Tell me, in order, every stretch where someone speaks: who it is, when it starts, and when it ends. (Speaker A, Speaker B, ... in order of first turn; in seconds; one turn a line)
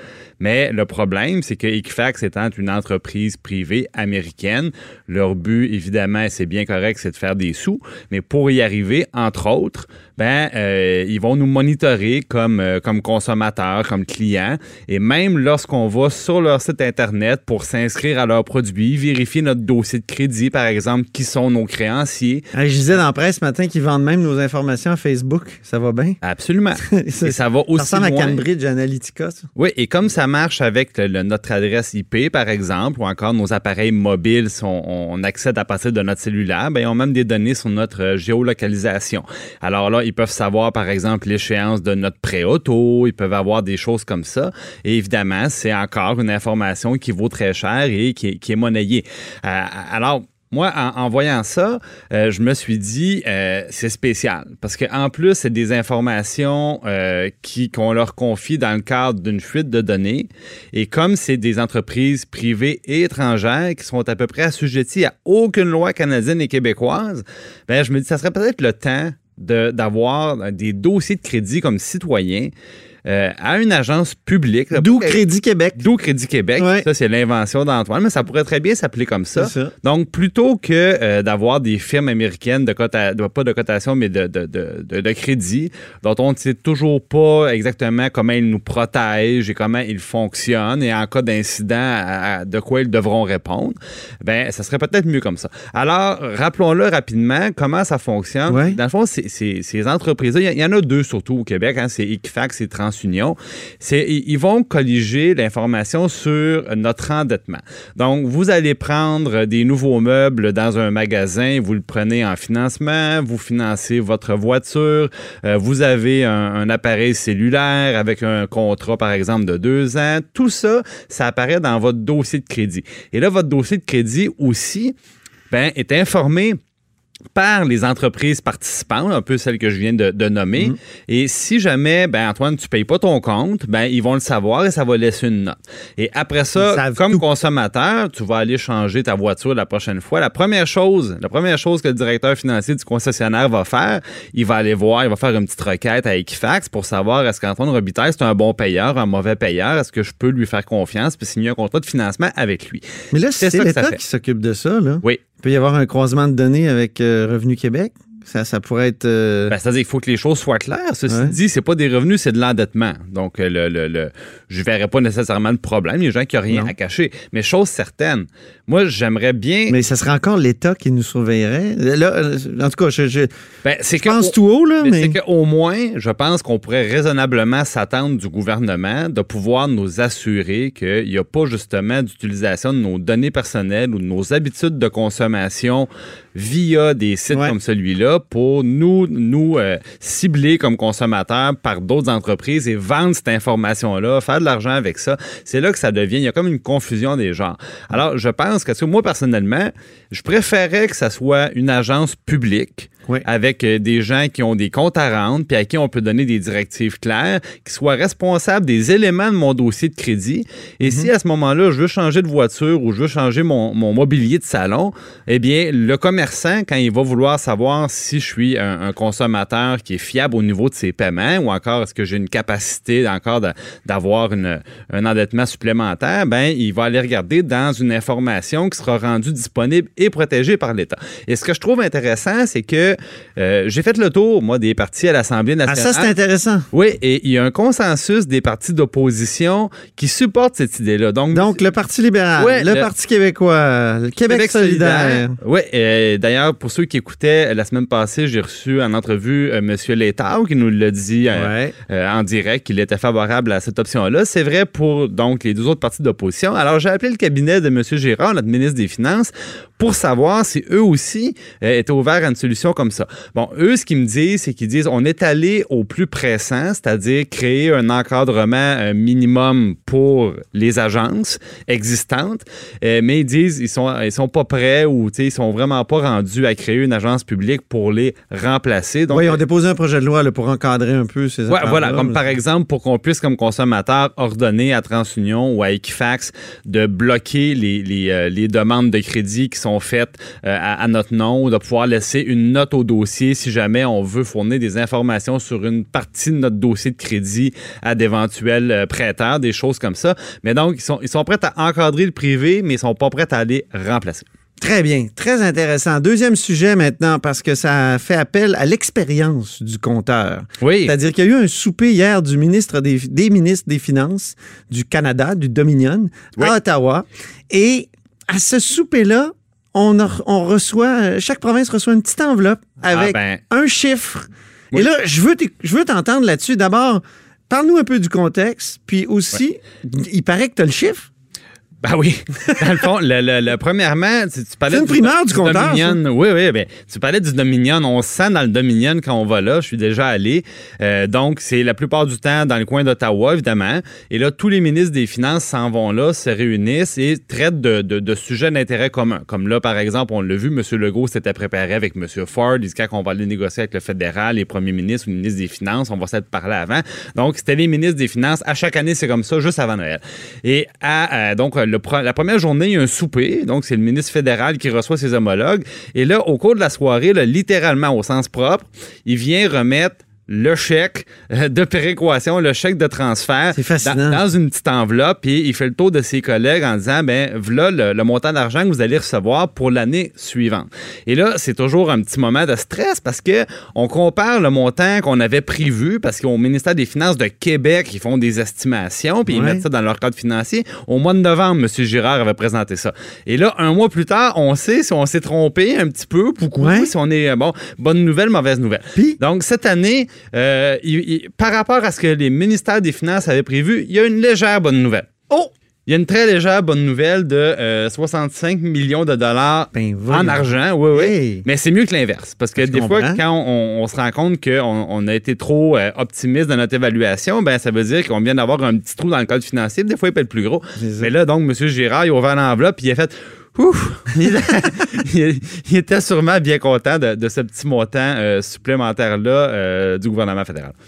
Speaker A: 0.4-22.4
Speaker B: 22.5-26.2
Speaker A: 26.2-28.4
Speaker B: 26.8-29.5
Speaker A: 29.6-72.5
Speaker A: 73.1-75.2
Speaker B: 74.7-75.9
Speaker A: 75.8-125.0
Speaker B: 76.6-76.9
Speaker B: 79.3-79.7
Speaker B: 98.5-98.8
Speaker A: 125.5-126.6
Speaker A: 127.3-152.8
Speaker B: 136.6-137.3
Speaker B: 153.1-159.6
Speaker A: 153.4-154.0
Speaker A: 159.5-169.8
Speaker B: 161.1-161.4
Speaker B: 169.7-173.3
Speaker A: 173.6-236.1
Speaker B: 173.9-175.2
Speaker B: 210.8-211.1
Speaker B: 235.7-236.7
Speaker A: 236.7-241.7
Speaker B: 241.3-245.3
Speaker A: 242.4-242.9
Speaker A: 244.3-279.4
Speaker B: 251.3-251.8
Speaker B: 279.1-282.2
Speaker A: 281.5-304.3
Speaker B: 304.6-331.1
Speaker A: 310.6-310.9
Speaker A: 322.9-323.4
Speaker A: 331.8-405.1
Speaker B: 334.7-336.0
Speaker B: 373.5-374.2
Speaker B: 389.3-389.6
Speaker B: 396.6-396.9
Speaker A: 405.9-430.8
Speaker B: 409.7-411.5
Speaker B: 412.6-413.2
Speaker B: 420.8-421.1